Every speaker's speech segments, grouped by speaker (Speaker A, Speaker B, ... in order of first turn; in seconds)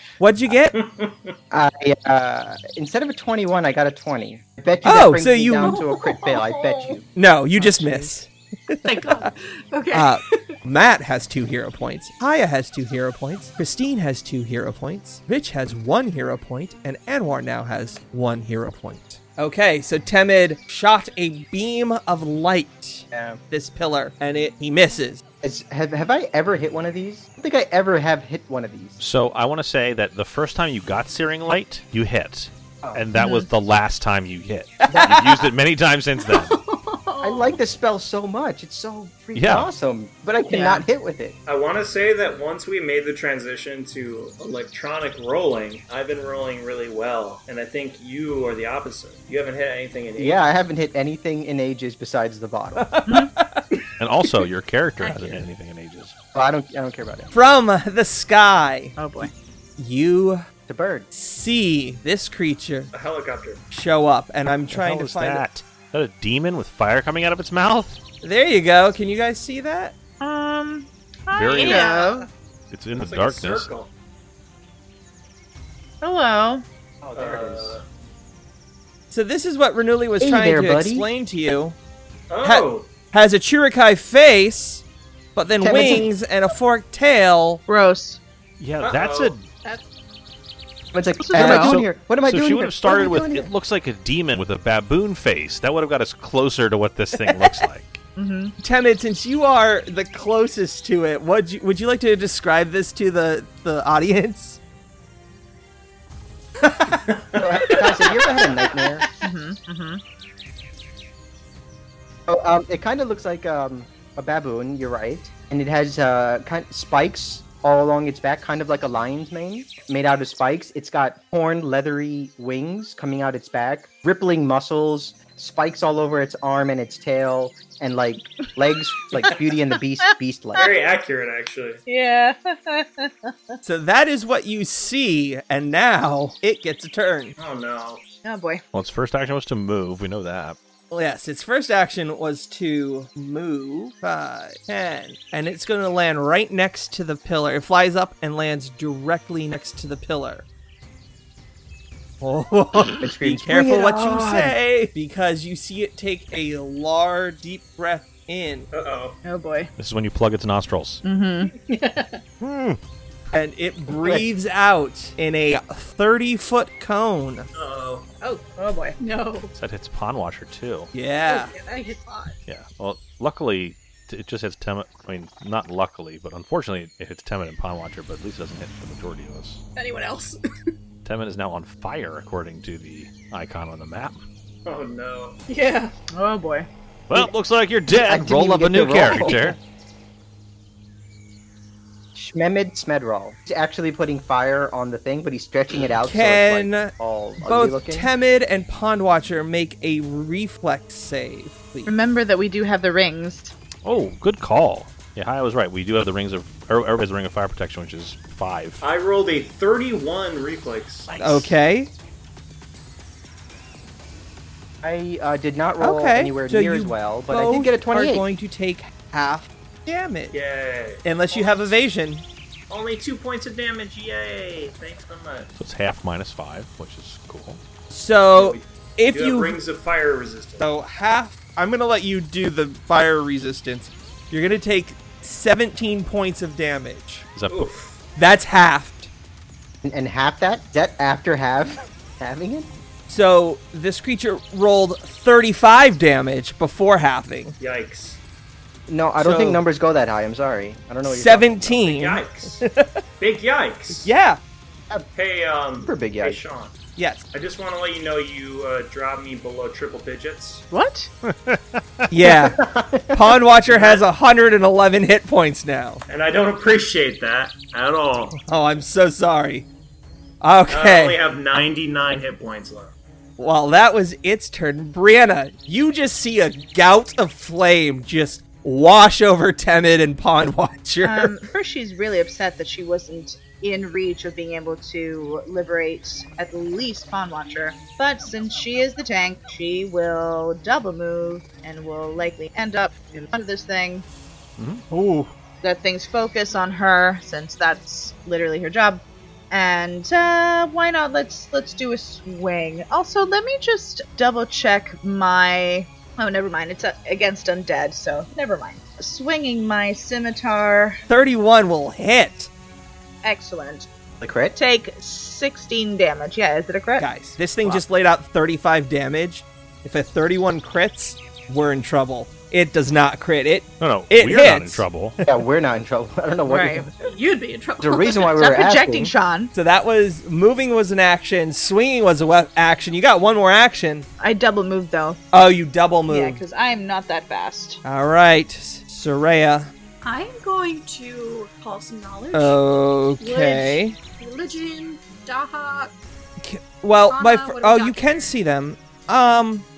Speaker A: 0.2-0.8, 4.8-5.8, 7.2-9.3, 9.9-25.2, 34.9-35.4, 52.8-53.7, 57.3-59.0, 59.8-60.5, 61.1-62.9, 63.7-65.5, 68.2-70.0, 79.1-81.8, 82.4-84.8, 85.3-87.6, 97.3-97.5, 98.6-104.6, 106.7-107.0, 133.6-137.3, 140.9-150.5, 152.2-158.7, 162.4-162.8, 163.3-167.5, 170.9-171.5, 196.0-201.9, 211.2-211.9, 215.8-220.4, 221.0-222.2, 227.9-229.6, 230.6-237.3, 238.2-239.1, 243.1-247.6, 249.2-249.6, 251.1-253.0, 254.0-254.4, 257.0-257.2, 262.1-262.6, 263.1-266.0, 268.4-269.7, 270.4-271.2, 273.4-281.4, 294.9-295.3, 311.1-312.5, 317.0-325.2, 329.5-334.1, 335.3-336.4, 337.8-339.7, 342.3-344.0, 346.4-349.7
Speaker B: 0.7-1.3, 41.5-50.5, 62.9-63.6, 73.0-73.9, 77.2-77.8, 82.3-82.9, 88.8-89.4, 106.9-108.3, 130.6-131.8, 137.4-138.0, 158.7-159.2, 167.5-168.1, 184.7-185.4, 208.8-211.4, 220.3-221.8, 222.7-225.5, 228.3-230.7, 237.5-238.0, 247.6-248.2, 251.7-252.7, 253.2-254.1, 255.2-256.8, 257.3-260.6, 263.7-264.1, 266.1-268.4, 270.7-272.9
Speaker C: 1.5-7.1, 23.1-23.4, 25.4-29.0, 34.9-35.2, 37.2-41.4, 50.2-53.0, 56.3-57.3, 60.7-61.1, 77.0-77.8, 80.2-81.1, 85.6-86.1, 90.9-93.5, 107.4-109.0, 112.3-130.7, 153.0-154.6, 187.9-189.6, 192.2-198.1, 214.8-218.3, 239.8-242.7, 248.9-251.8, 255.8-256.4, 262.2-263.4, 314.2-314.6, 325.2-326.9, 327.8-329.1
Speaker D: 5.6-7.0, 8.8-10.6, 36.2-37.6, 55.0-55.4, 71.6-72.3, 161.6-162.2, 169.0-169.5, 171.3-172.4, 179.8-180.4, 185.5-185.9, 327.0-328.3, 340.0-342.6, 343.2-345.9, 347.0-348.4
Speaker E: 7.6-8.1, 33.1-33.5, 40.5-40.8, 59.0-59.3, 70.2-72.3, 76.0-76.6, 87.7-88.2, 91.2-91.8, 98.2-98.5, 109.2-110.0, 130.1-130.7, 131.9-133.6, 138.2-138.6, 159.2-159.7, 161.0-161.5, 168.6-168.9, 186.1-186.7, 201.9-203.5, 260.7-261.1, 281.0-294.1, 295.6-311.0, 313.2-313.9, 314.6-317.1, 326.5-326.9, 328.4-329.5, 334.2-335.2, 336.1-337.8
Speaker F: 29.0-36.6, 39.4-39.7, 54.0-56.1, 64.7-68.0, 71.3-72.1, 72.7-73.7, 88.6-89.5, 91.4-98.0, 138.7-140.6, 159.8-161.0, 169.6-170.9, 172.5-179.6, 181.1-184.2, 187.1-189.6, 203.8-208.8, 225.6-227.6, 237.3-237.7, 261.2-261.8, 294.6-294.9, 323.8-325.2